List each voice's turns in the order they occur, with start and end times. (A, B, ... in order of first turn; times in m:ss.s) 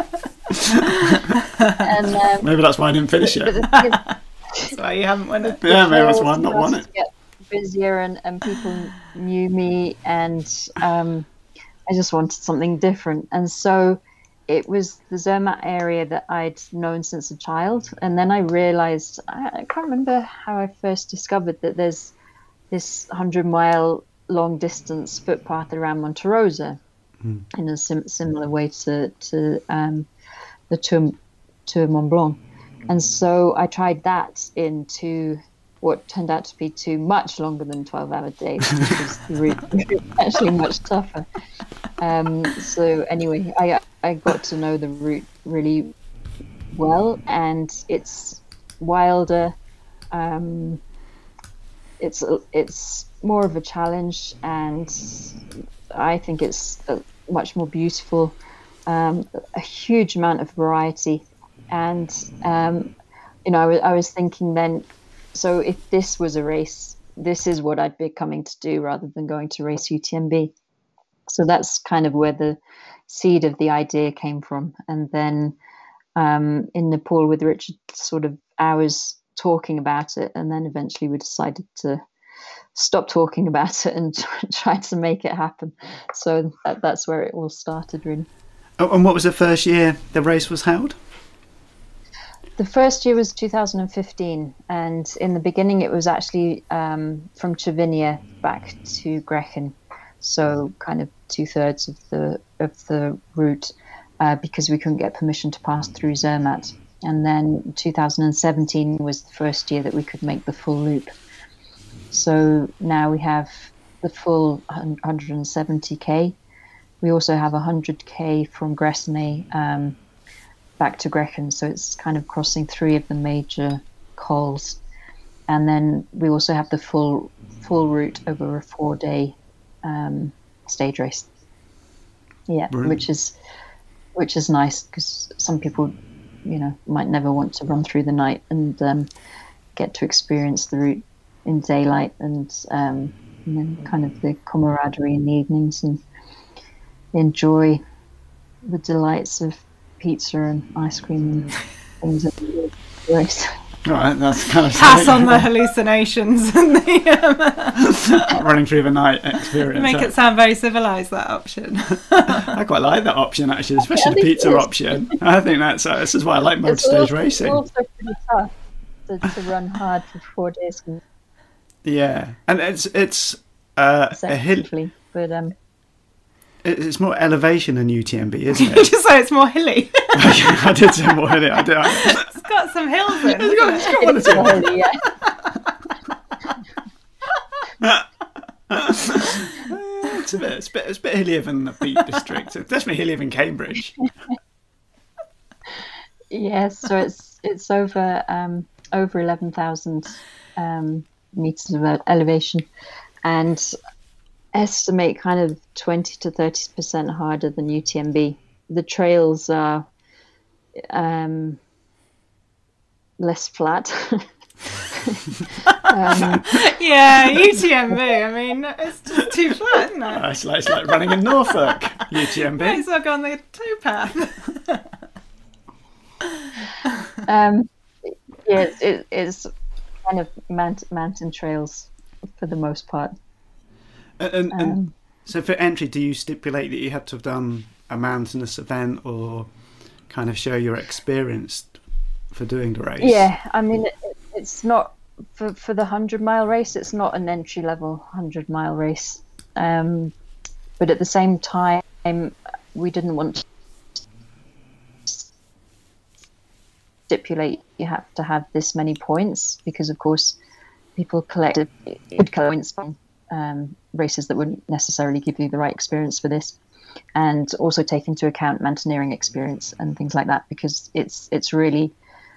0:00.7-0:01.2 A
0:01.8-0:02.5 B
0:02.4-0:03.6 A
0:03.2-0:04.0 B
0:04.7-0:05.6 C
0:05.6-0:06.8 A
0:05.6-0:11.3 B
0:11.9-0:22.1 B
0:22.7-0:26.8 B
0:27.5-0:30.1 B
0:30.7-0:41.2 B
0:42.0-0:45.9 B
0:46.7-0:49.5 B
0:50.1-0:50.8 B
0:52.0-0:55.3 B
0:55.9-1:02.9 B
1:03.4-1:10.5 B
1:11.3-1:15.5 B
1:16.2-1:22.0 B
1:22.7-1:28.3 B
1:28.8-1:31.0 A
1:32.6-1:51.1 B
1:52.1-1:56.4 B
1:57.0-2:00.0 B
2:00.8-2:04.8 B
2:05.5-2:11.3 B
2:12.5-2:13.3 B
2:12.7-2:13.0 A
2:14.1-2:15.9 B
2:16.4-2:19.1 B
2:19.8-2:26.0 B
2:27.1-2:27.8 B
2:28.6-2:33.5 B
2:33.8-2:35.4 A
2:34.7-2:38.0 C
2:37.8-2:40.1 A
2:39.7-2:42.5 C
2:42.4-2:47.6 A
2:43.8-2:45.2 B
2:46.6-2:48.5 B
2:49.1-2:51.0 B
2:51.8-2:54.7 A
2:54.1-2:55.5 B
2:56.6-2:58.9 A
2:58.6-3:01.0 C
3:00.1-3:02.3 A
3:01.8-3:04.6 C
3:03.2-3:04.6 A
3:03.8-3:05.0 B
3:07.8-3:08.0 A
3:08.7-3:14.0 A
3:16.3-3:22.6 B
3:23.2-3:23.7 B
3:24.5-3:29.8 B
3:30.8-3:31.6 B
3:33.2-3:34.2 B
3:34.9-3:36.8 B
3:36.2-3:40.2 C
3:40.1-3:42.8 A
3:42.5-3:44.8 C
3:47.2-3:49.5 B
3:50.0-3:53.1 B
3:54.2-3:59.5 A
3:54.5-3:54.9 B
4:00.1-4:01.8 A
4:02.3-4:03.3 A
4:03.0-4:10.1 B
4:10.8-4:13.4 B
4:17.1-4:20.4 B
4:21.0-4:26.6 B
4:27.1-4:31.9 B